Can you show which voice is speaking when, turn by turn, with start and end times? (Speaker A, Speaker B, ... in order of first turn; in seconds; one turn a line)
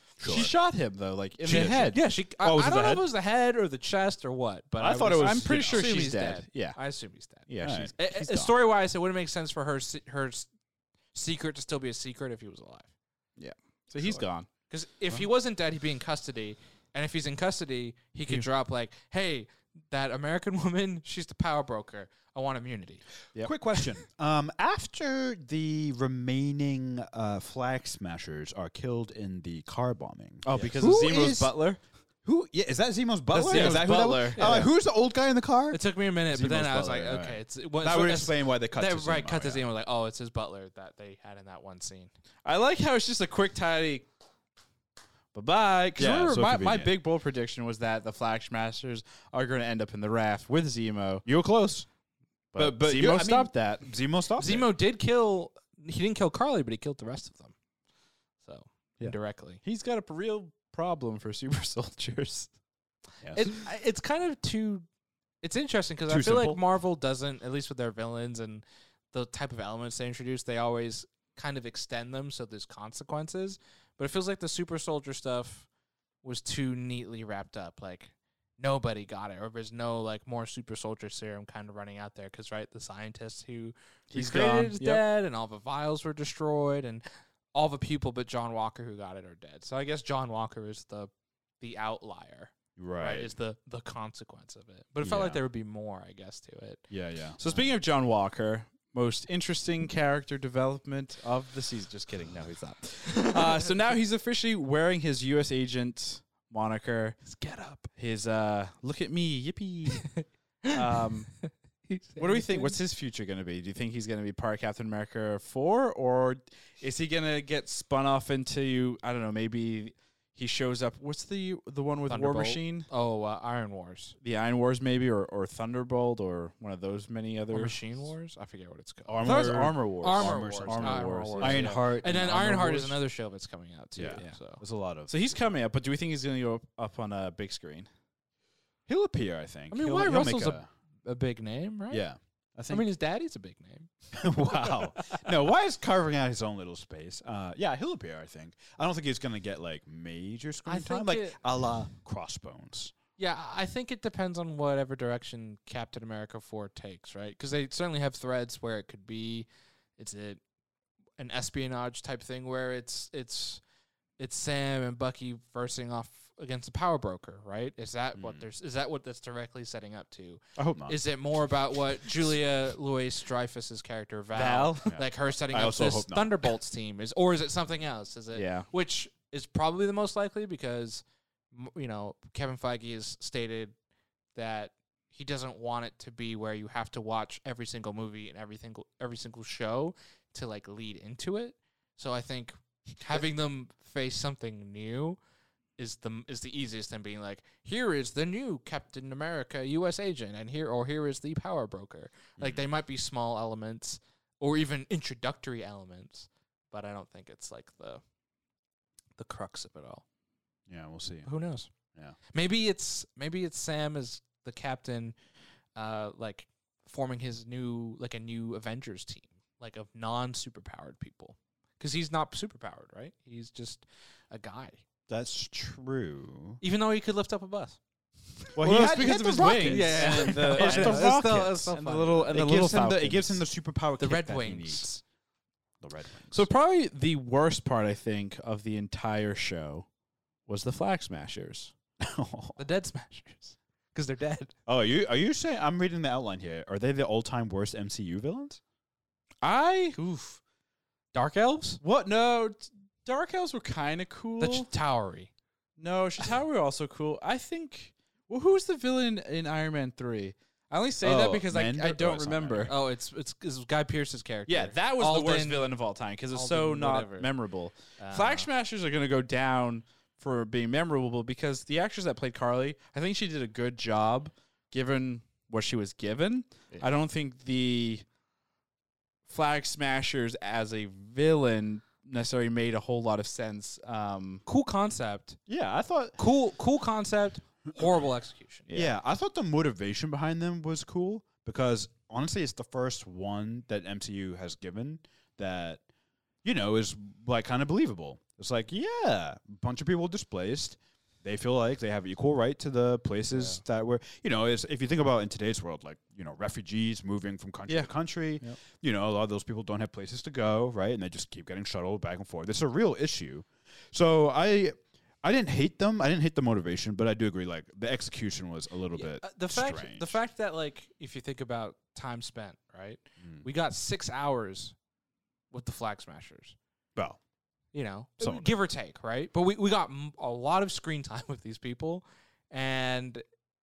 Speaker A: 0.2-0.5
Speaker B: 0.2-2.0
Speaker A: 1.4-3.1
Speaker C: 1.5-10.5
Speaker A: 4.8-5.9
Speaker B: 5.2-6.8
Speaker B: 7.5-8.5
Speaker A: 7.6-7.9
Speaker C: 11.1-12.9
Speaker B: 13.4-14.5
Speaker C: 14.7-23.1
Speaker A: 23.4-31.5
Speaker B: 30.4-31.8
Speaker A: 32.2-35.8
Speaker B: 33.3-34.7
Speaker C: 33.5-34.7
Speaker C: 35.7-42.1
Speaker A: 36.3-39.6
Speaker B: 42.5-44.1
Speaker B: 45.3-51.2
Speaker A: 46.0-47.0
Speaker A: 51.2-51.9
Speaker B: 52.5-53.9
Speaker A: 52.5-54.7
Speaker C: 54.4-57.5
Speaker C: 58.4-59.6
Speaker B: 59.6-62.5
Speaker C: 63.4-64.8
Speaker C: 65.4-75.7
Speaker A: 66.1-66.6
Speaker C: 76.2-96.8
Speaker B: 84.1-85.0
Speaker A: 92.8-93.3
Speaker A: 95.0-95.4
Speaker A: 96.9-97.4
Speaker B: 97.4-107.2
Speaker C: 103.2-103.7
Speaker C: 107.3-107.9
Speaker B: 108.0-110.1
Speaker C: 110.0-110.7
Speaker B: 110.7-111.3
Speaker C: 111.9-112.8
Speaker B: 112.2-122.9
Speaker C: 122.1-124.2
Speaker B: 124.2-127.8
Speaker C: 127.5-134.6
Speaker A: 129.1-133.0
Speaker B: 129.2-132.0
Speaker A: 134.0-135.4
Speaker B: 135.1-137.9
Speaker A: 138.9-140.7
Speaker C: 139.7-142.1
Speaker A: 141.9-142.9
Speaker C: 142.7-143.9
Speaker A: 144.1-152.9
Speaker C: 144.7-145.3
Speaker C: 150.7-151.4
Speaker C: 153.2-159.5
Speaker C: 160.0-160.4
Speaker C: 161.2-163.6
Speaker C: 164.2-183.7
Speaker A: 168.2-168.4
Speaker A: 170.6-171.0
Speaker B: 174.3-175.0
Speaker A: 174.9-176.5
Speaker B: 178.3-178.7
Speaker C: 184.3-195.2
Speaker C: 195.8-208.0
Speaker C: 209.2-210.0
Speaker A: 210.7-211.3
Speaker C: 211.3-211.7
Speaker C: 212.3-215.2
Speaker C: 215.8-224.8
Speaker A: 225.1-226.6
Speaker C: 226.6-227.8
Speaker A: 228.6-231.5
Speaker B: 228.6-233.4
Speaker C: 229.6-232.4
Speaker A: 232.3-234.9
Speaker C: 234.0-235.0
Speaker A: 235.8-236.5
Speaker B: 236.3-239.9
Speaker B: 240.5-241.7
Speaker A: 242.0-242.6
Speaker C: 242.6-244.5
Speaker A: 244.7-248.6
Speaker B: 249.4-250.4
Speaker C: 251.1-251.8
Speaker B: 251.8-254.7
Speaker C: 254.4-255.3
Speaker B: 255.8-262.8
Speaker A: 261.0-262.8
Speaker C: 262.7-265.8
Speaker B: 264.5-278.1
Speaker C: 266.3-267.3
Speaker C: 268.0-268.5
Speaker B: 279.3-284.4
Speaker C: 284.5-285.4
Speaker A: 285.5-286.2
Speaker C: 286.2-288.7
Speaker A: 288.7-295.8
Speaker A: 296.4-320.2
Speaker C: 303.3-303.6
Speaker B: 307.7-308.6
Speaker C: 319.0-324.8
Speaker C: 325.5-326.6
Speaker C: 327.7-333.2
Speaker A: 328.2-328.5